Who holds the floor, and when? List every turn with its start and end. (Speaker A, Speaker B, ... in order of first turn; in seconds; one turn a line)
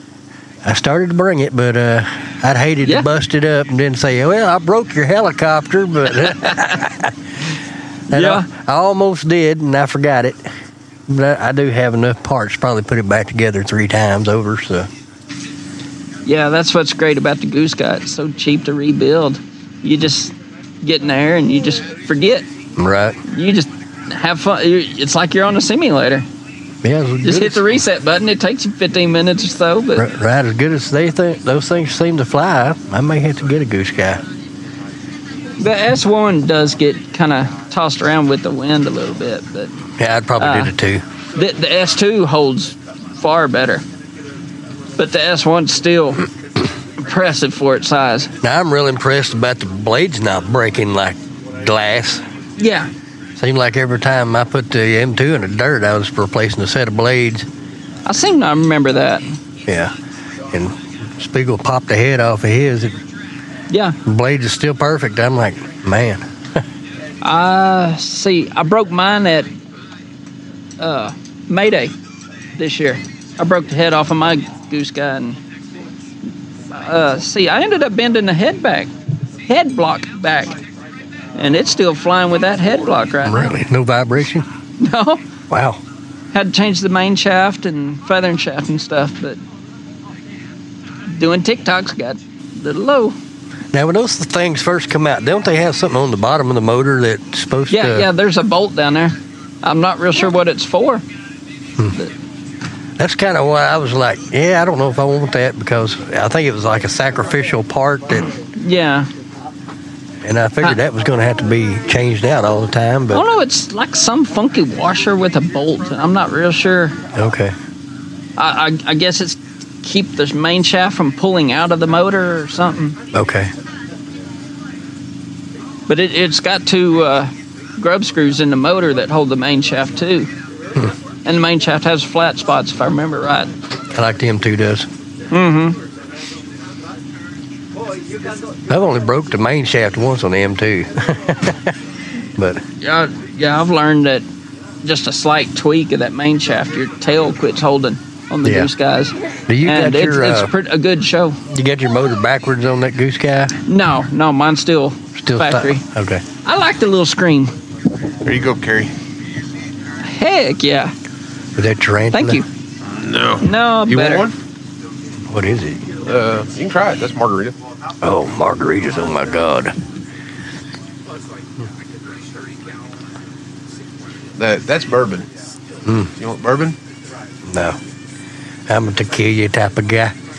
Speaker A: 0.6-7.1
Speaker B: 6.2-6.7
Speaker A: 8.1-10.5
Speaker B: 8.1-8.4
Speaker A: 11.1-14.9
Speaker B: 16.2-22.5
Speaker A: 22.8-23.2
Speaker B: 23.3-26.2
Speaker A: 26.8-27.8
Speaker B: 27.2-30.0
Speaker A: 29.9-34.2
Speaker B: 35.6-39.7
Speaker A: 40.0-41.0
Speaker B: 40.4-40.7
Speaker B: 41.3-43.8
Speaker B: 45.0-46.3
Speaker B: 47.0-48.3
Speaker A: 48.4-52.2
Speaker B: 52.6-52.9
Speaker A: 53.4-57.5
Speaker B: 58.0-59.4
Speaker A: 59.7-59.9
Speaker A: 60.5-63.0
Speaker B: 63.7-64.0
Speaker A: 64.0-66.2
Speaker B: 67.2-69.5
Speaker B: 70.8-71.9
Speaker B: 72.5-75.4
Speaker B: 76.7-78.9
Speaker B: 79.5-80.6
Speaker B: 81.3-83.5
Speaker A: 83.2-84.5
Speaker B: 84.8-85.2
Speaker A: 85.5-85.8
Speaker B: 86.3-89.4
Speaker B: 91.1-93.1
Speaker A: 93.7-98.1
Speaker B: 97.7-101.0
Speaker A: 103.0-108.3
Speaker B: 108.6-109.1
Speaker A: 110.2-113.2
Speaker B: 113.1-117.0
Speaker A: 117.1-117.5
Speaker B: 118.4-123.0
Speaker A: 123.1-123.5
Speaker B: 125.9-130.3
Speaker B: 131.2-133.5
Speaker A: 133.9-134.9
Speaker B: 135.3-135.8
Speaker A: 138.7-141.7
Speaker A: 142.3-142.6
Speaker B: 142.8-144.2
Speaker B: 144.8-151.4
Speaker A: 148.4-148.7
Speaker A: 149.5-150.5
Speaker A: 151.5-153.5
Speaker B: 153.7-155.8
Speaker A: 155.2-156.2
Speaker B: 156.4-157.5
Speaker C: 158.2-158.9
Speaker B: 160.0-160.9
Speaker A: 161.6-162.4
Speaker B: 162.1-162.4
Speaker C: 162.8-164.3
Speaker B: 163.4-164.3
Speaker A: 165.3-165.8
Speaker C: 166.0-167.6
Speaker A: 168.0-169.8
Speaker C: 174.4-175.3
Speaker A: 175.8-176.1
Speaker C: 176.2-176.8
Speaker A: 177.4-177.8
Speaker A: 178.7-180.1